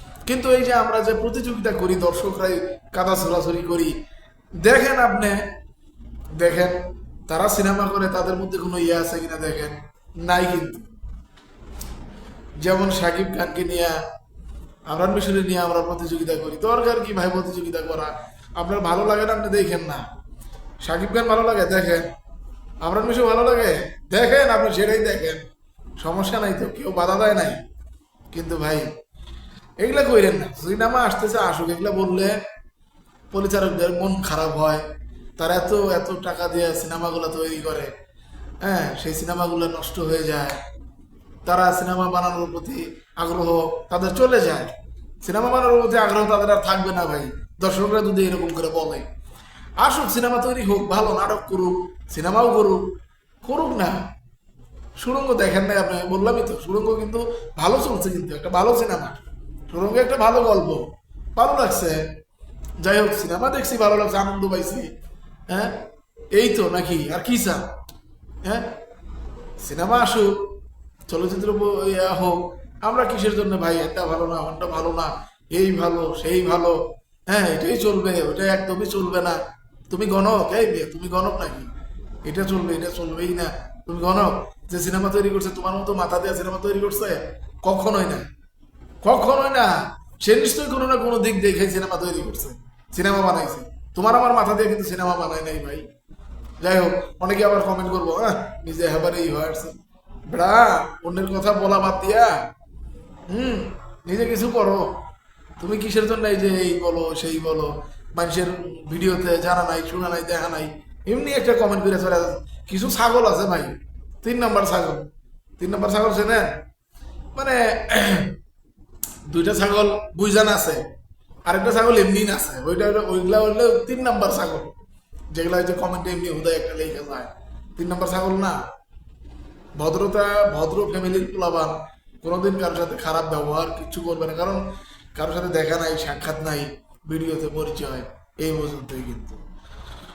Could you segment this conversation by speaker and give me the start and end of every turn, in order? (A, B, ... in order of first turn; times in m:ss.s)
0:00.3-0:03.9 A
0:04.6-0:05.4 A
0:06.4-0:10.9 A
0:12.6-0:14.0 A
0:14.9-0:20.1 A
0:20.8-0:22.1 A
0:22.8-0:25.4 A
0:26.0-0:27.6 A
0:28.3-0:28.9 A
0:29.8-0:32.4 A
0:33.3-0:34.8 A
0:35.4-0:37.9 A
0:38.6-0:40.6 A
0:41.5-0:49.1 A
0:49.8-0:52.9 A
0:53.4-0:54.1 A
0:55.0-1:02.1 A
1:02.8-1:04.9 A
1:05.5-1:07.7 A
1:08.4-1:08.7 A
1:09.6-1:10.4 A
1:11.1-1:21.7 A
1:22.3-1:28.3 A
1:29.0-1:35.8 A
1:36.6-1:42.5 A
1:43.3-1:44.9 A
1:45.6-1:55.1 A
1:55.6-1:56.6 A
1:57.4-1:58.3 A
1:59.3-2:00.9 A
2:01.5-2:04.7 A
2:05.3-2:08.6 A
2:09.8-2:14.6 A
2:15.2-2:19.4 A